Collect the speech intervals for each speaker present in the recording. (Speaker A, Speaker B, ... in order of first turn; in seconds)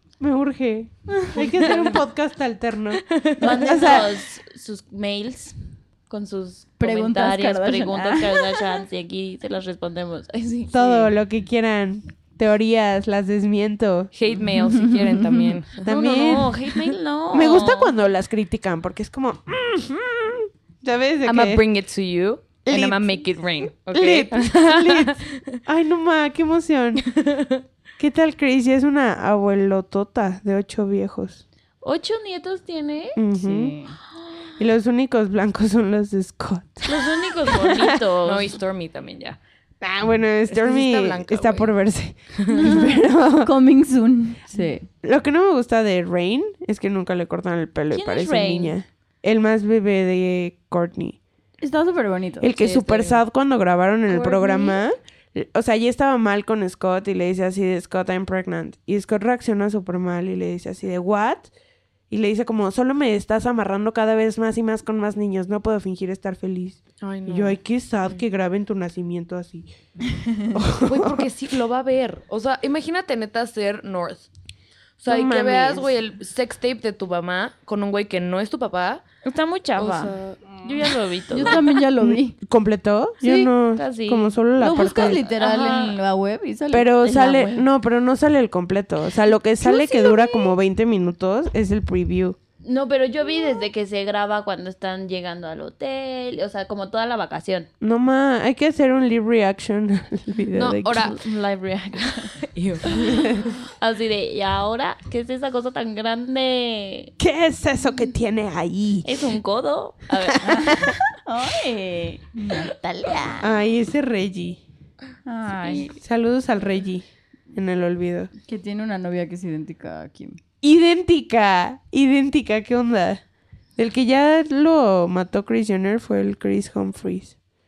Speaker A: 0.2-4.2, 10.7-14.1, 15.8-16.6, 17.3-21.6, 22.6-23.3, 23.9-27.1, 28.0-31.4, 33.1-33.8, 34.6-38.0, 39.8-43.5, 45.0-51.2, 52.4-61.5, 62.1-69.7, 70.5-71.3, 75.1-75.9, 82.0-85.2, 86.7-92.4, 97.8-101.1, 107.2-109.4, 110.2-111.0, 113.4-114.6, 115.9-118.3, 120.6-123.2, 123.8-127.3
Speaker B: 1.1-1.4, 6.8-8.8, 14.7-15.4, 33.3-34.0, 42.5-44.9, 51.6-52.5, 81.3-82.3, 83.2-83.5, 84.6-86.9, 110.4-113.5, 115.2-116.0, 118.5-120.4
Speaker C: 1.5-2.0, 3.1-4.1, 14.1-16.9, 21.2-25.6, 27.0-27.6, 38.2-39.4, 40.5-41.7, 42.3-42.7, 52.6-53.2, 67.0-67.6, 70.8-74.3, 75.0-79.0, 79.8-80.6, 100.5-101.2, 102.4-103.5
Speaker D: 3.4-5.6, 6.1-11.1, 15.8-17.9, 31.8-33.2, 34.2-34.5, 36.8-38.5, 47.9-48.7, 54.1-54.8, 79.2-81.7, 83.7-86.0, 87.0-87.7, 89.6-90.5, 92.6-97.7, 100.9-102.3, 102.8-107.1, 109.0-110.9, 112.5-113.1, 115.6-115.9